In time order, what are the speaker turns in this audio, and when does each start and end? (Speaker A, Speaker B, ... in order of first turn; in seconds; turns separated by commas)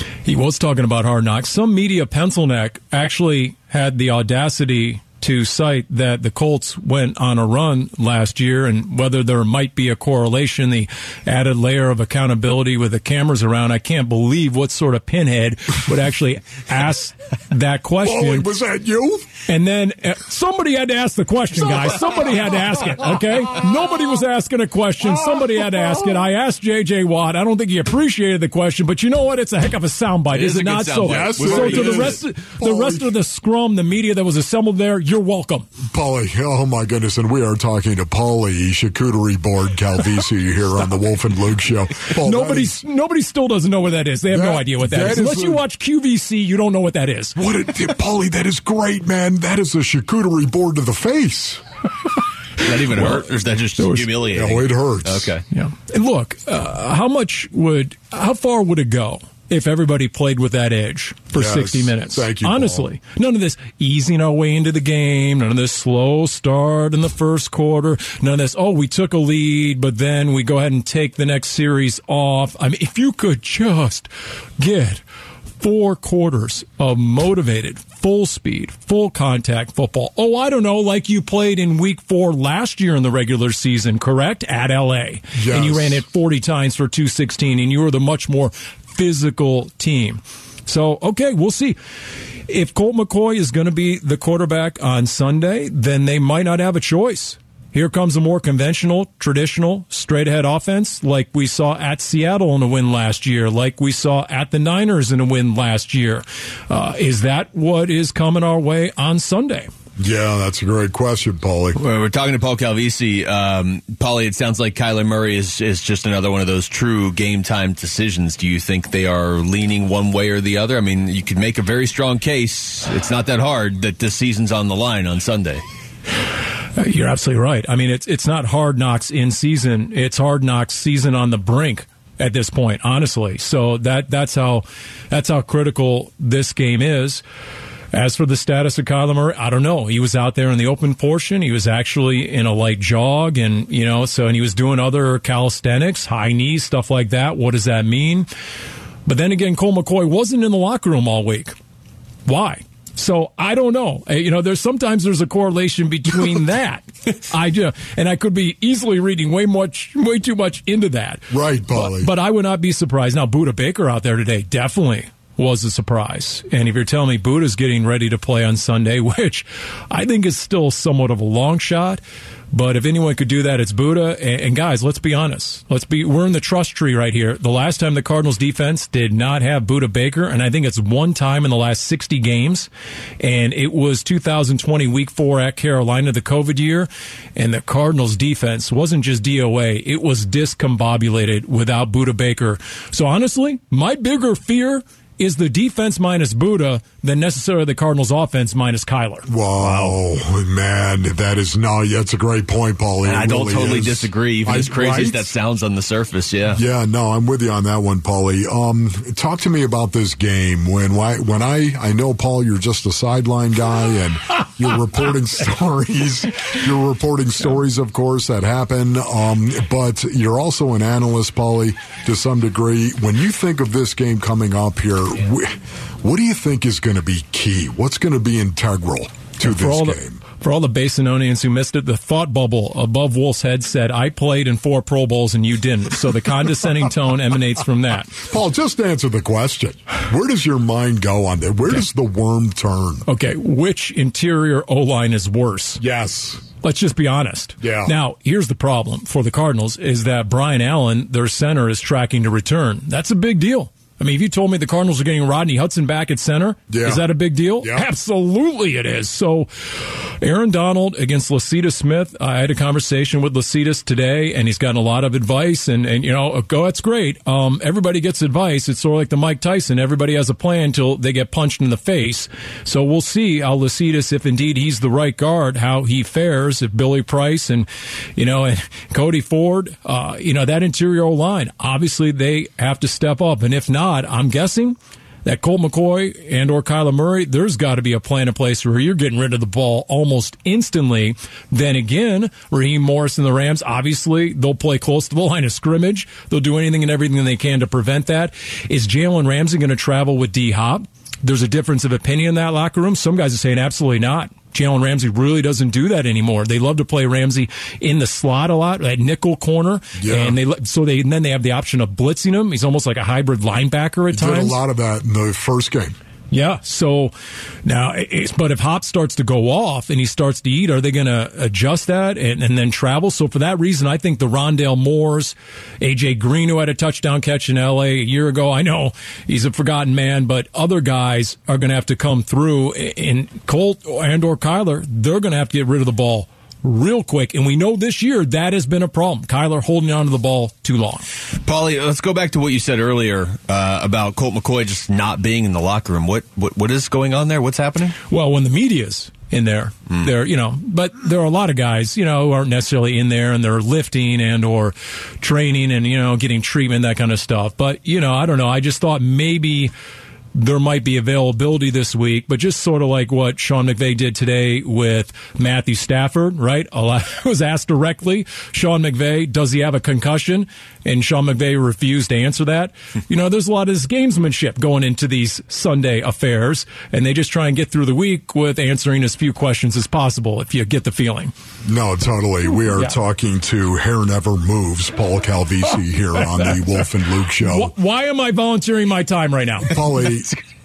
Speaker A: 0.2-18.5, Speaker B: 18.0-19.2, Speaker A: 19.5-35.7, Speaker B: 25.1-26.2, Speaker C: 30.3-32.1, Speaker B: 31.0-33.1, Speaker B: 35.9-42.8, Speaker A: 42.2-47.4, Speaker B: 44.3-45.6, Speaker B: 47.4-51.6, Speaker C: 52.6-55.4, Speaker A: 53.8-54.1, Speaker B: 54.2-55.3, Speaker A: 55.5-75.0, Speaker B: 61.3-62.9, Speaker A: 75.6-91.8, Speaker B: 85.3-86.0, Speaker A: 92.5-109.7, Speaker B: 110.0-111.8, Speaker C: 111.8-125.6, Speaker A: 126.8-137.2, Speaker A: 137.9-148.3, Speaker A: 149.0-151.5, Speaker A: 152.2-200.0, Speaker B: 161.3-162.1, Speaker B: 199.2-205.3, Speaker C: 203.1-206.6, Speaker B: 206.5-230.2, Speaker A: 229.4-238.2, Speaker B: 238.2-243.1, Speaker A: 243.1-245.8, Speaker B: 245.8-246.4, Speaker A: 246.6-314.6, Speaker B: 247.6-247.9, Speaker B: 256.7-257.1, Speaker B: 257.6-257.9, Speaker B: 310.0-310.4, Speaker B: 314.1-315.9, Speaker A: 316.3-317.1, Speaker A: 317.6-341.0, Speaker C: 341.4-347.9, Speaker A: 348.1-359.7, Speaker A: 360.3-381.3, Speaker B: 381.6-387.7, Speaker A: 386.3-386.6, Speaker A: 387.4-389.7, Speaker B: 389.6-390.3